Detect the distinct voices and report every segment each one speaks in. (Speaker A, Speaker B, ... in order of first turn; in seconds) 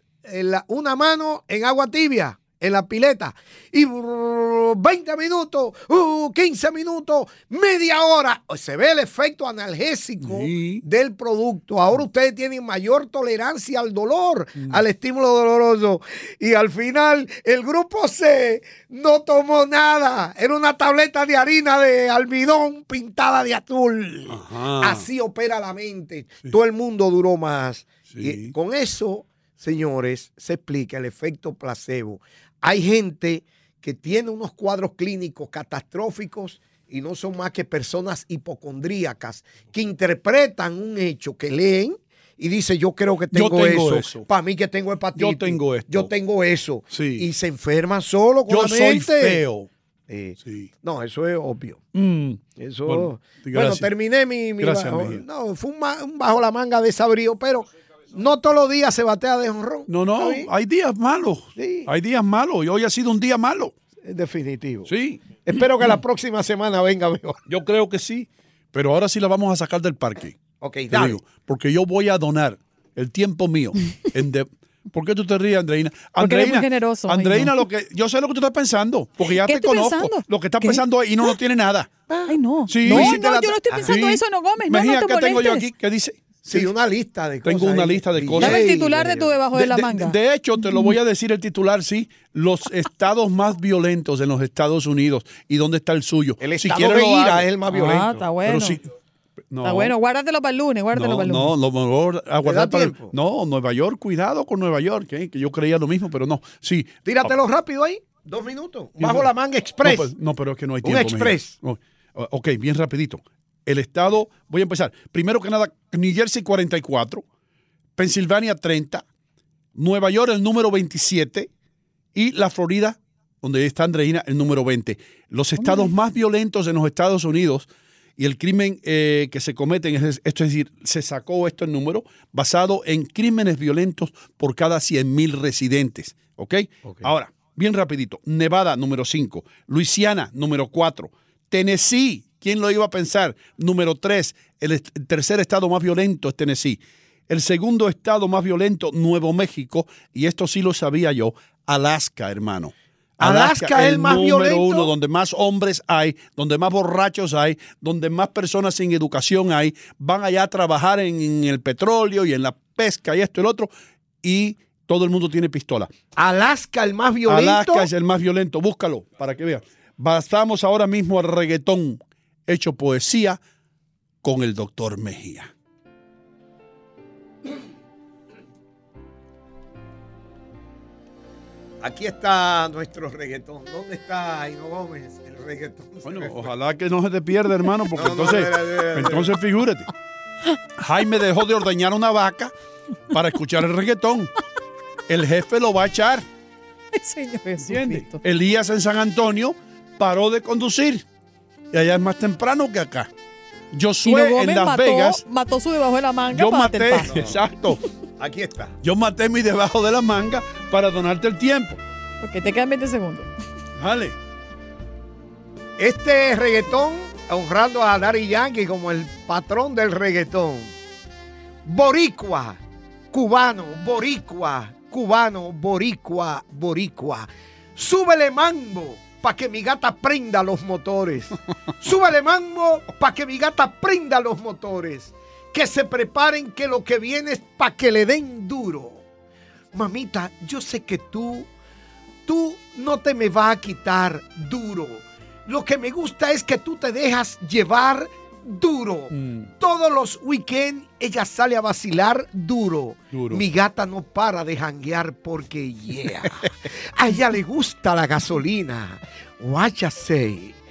Speaker A: 0.2-49.4, 50.1-51.8, 52.5-60.5, 61.5-61.9, 64.0-64.9, 65.4-67.4, 70.6-71.2, 82.1-84.0, 86.5-89.3, 96.4-98.3, 102.4-103.1, 107.0-110.1, 110.8-111.6, 153.2-154.9, 166.2-167.9, 181.8-186.5, 187.9-189.3, 207.0-207.4, 208.2-208.8, 215.8-220.7, 221.6-222.6, 223.1-239.0, 239.7-241.5, 242.2-260.6
Speaker B: 10.2-10.8, 14.6-14.8, 24.3-25.1, 28.1-28.5, 43.3-44.3, 45.1-46.1, 46.9-47.3, 48.5-49.7, 50.4-50.7, 51.9-53.9, 54.6-55.2, 59.9-63.7, 64.8-65.2, 67.5-82.0, 82.7-83.2, 83.8-86.7, 87.4-88.7, 89.2-97.7, 98.4-98.8, 99.5-99.9, 100.9-107.4, 109.0-117.2, 118.0-119.0, 119.7-121.5, 122.1-163.7, 164.2-165.9, 167.2-173.4, 174.2-175.5, 186.0-189.9, 190.8-192.5, 193.1-194.3, 195.1-196.2, 197.6-201.0, 201.7-203.1, 203.7-205.2, 206.3-207.8, 208.8-211.8, 213.8-214.2, 249.1-249.5, 253.1-253.4
Speaker C: 76.2-77.5, 79.2-80.8, 82.3-85.7, 88.4-91.0, 97.7-98.8, 99.6-101.5, 125.6-125.9, 196.9-198.2, 204.0-207.2, 212.2-213.3